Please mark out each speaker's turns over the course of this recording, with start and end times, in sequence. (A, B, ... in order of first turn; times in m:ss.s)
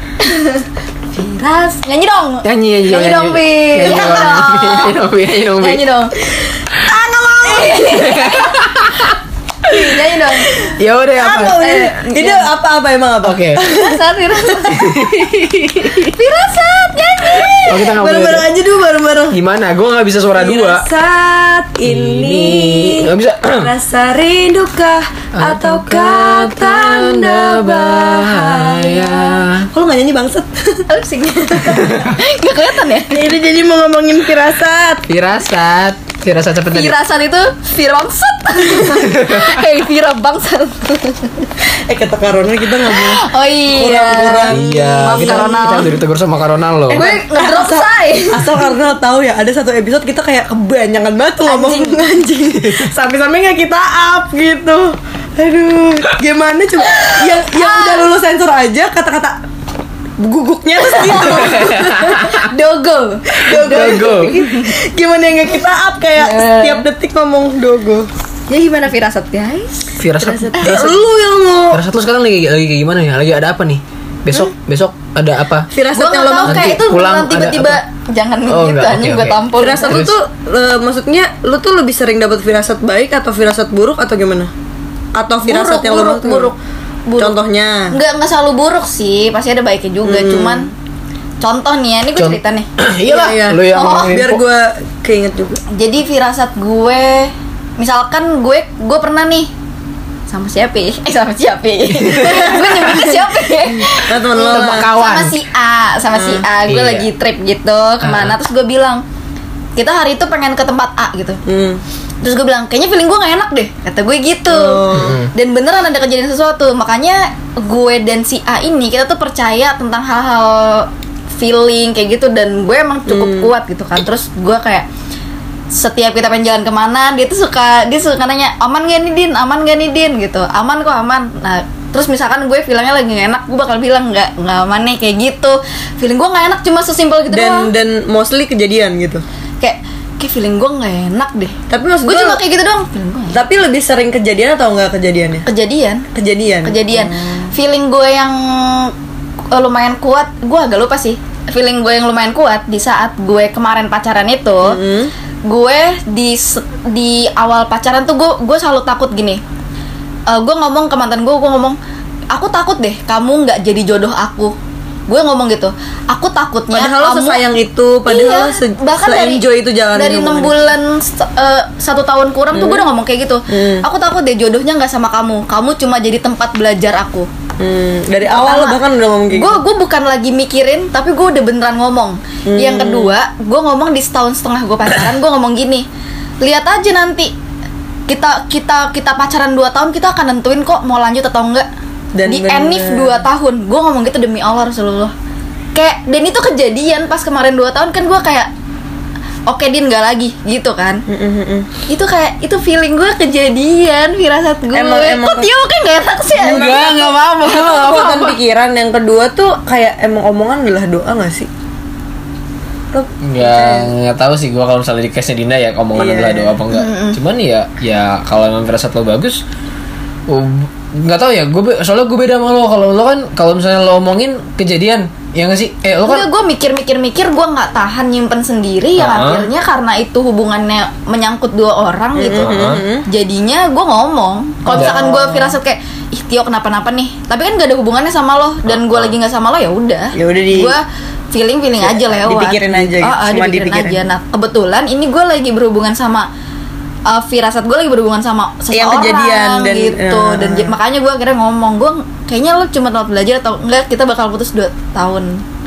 0:00.2-0:05.0 A
0:02.4-0:05.8 B
0:03.8-0:04.3 C
0:05.6-0:06.2 A
0:06.8-0:07.9 C
0:07.4-0:08.6 A
0:07.9-0:09.9 B
0:09.7-0:10.5 A
0:10.4-0:14.9 C
0:10.8-0:11.6 B
0:11.2-0:12.5 A
0:13.2-0:13.6 B
0:13.7-0:14.9 A
0:14.7-0:16.1 B
0:16.1-0:17.9 A
0:17.7-0:18.5 B
0:18.0-0:19.4 C
0:19.3-0:20.9 B
0:20.4-0:30.8 C
0:21.8-0:23.7 B
0:25.3-0:29.7 B
0:30.9-0:33.2 A
0:31.8-0:32.2 B
0:33.1-0:35.1 C
0:35.1-0:36.9 B
0:36.7-0:41.5 A
0:38.9-0:39.6 B
0:41.7-0:46.0 C
0:42.8-0:46.0 A
0:44.5-0:47.0 B
0:46.9-0:59.4 C
0:46.9-0:48.7 A
0:51.4-0:52.0 A
0:56.8-0:58.0 A
1:00.2-1:02.3 C
1:00.8-1:04.7 A
1:01.1-1:02.5 B
1:03.4-1:08.1 C
1:03.5-1:04.3 B
1:06.2-1:06.8 A
1:08.5-1:10.9 A
1:10.0-1:11.0 B
1:10.5-1:11.8 C
1:11.7-1:15.7 B
1:15.7-1:16.8 C
1:15.9-1:20.0 A
1:16.4-1:17.8 B
1:18.5-1:20.1 B
1:19.6-1:24.5 C
1:25.2-1:26.5 C
1:25.4-1:27.4 A
1:27.2-1:27.9 C
1:27.9-1:30.7 A
1:30.0-1:30.7 C
1:31.4-1:32.7 A
1:32.2-1:34.4 B
1:33.1-1:35.6 C
1:33.7-1:34.2 A
1:35.7-1:39.5 A
1:40.3-1:49.0 A
1:42.5-1:43.2 C
1:43.8-1:44.9 C
1:44.5-1:45.3 B
1:46.1-1:46.4 C
1:46.7-1:47.1 B
1:48.0-1:48.3 B
1:49.8-1:51.4 A
1:51.4-1:51.8 C
1:52.2-2:04.9 A
1:54.5-1:55.2 C
1:54.9-1:55.3 B
2:03.1-2:03.5 C
2:05.7-2:17.7 A
2:17.3-2:19.2 C
2:19.6-2:21.5 A
2:21.7-2:22.4 C
2:22.0-2:23.4 A
2:23.3-2:25.4 C
2:25.4-2:26.0 A
2:26.1-2:27.5 C
2:26.6-2:28.9 A
2:29.5-2:34.8 A
2:34.6-2:35.1 C
2:35.4-2:39.4 A
2:40.3-2:41.8 A
2:42.3-2:44.6 A
2:45.1-2:47.4 A
2:46.7-2:50.6 C
2:48.1-2:49.4 A
2:49.9-2:57.3 A
2:52.5-2:52.8 C
2:53.5-2:53.8 C
2:57.6-2:59.6 C
2:58.2-2:58.8 A
2:59.3-3:05.8 A
3:02.5-3:03.1 C
3:06.4-3:07.3 A
3:08.1-3:11.6 A
3:12.2-3:13.2 C
3:12.2-3:15.1 A
3:15.7-3:18.5 A
3:19.5-3:21.0 A
3:21.1-3:21.7 C
3:21.9-3:27.1 A
3:24.7-3:25.4 C
3:26.4-3:31.5 C
3:26.4-3:28.4 B
3:32.9-3:33.9 C
3:33.2-3:39.4 B
3:36.0-3:36.6 C
3:36.7-3:37.2 A
3:40.3-3:46.3 B
3:46.0-3:52.5 A
3:49.0-3:49.5 B
3:52.2-3:53.0 C
3:52.4-3:52.8 B
3:53.1-4:00.8 A
3:54.6-3:55.6 C
3:54.7-3:55.0 B
3:58.6-3:59.1 B
4:00.1-4:00.7 C
4:01.3-4:06.3 A
4:01.8-4:04.0 C
4:07.1-4:15.4 A
4:08.7-4:10.7 C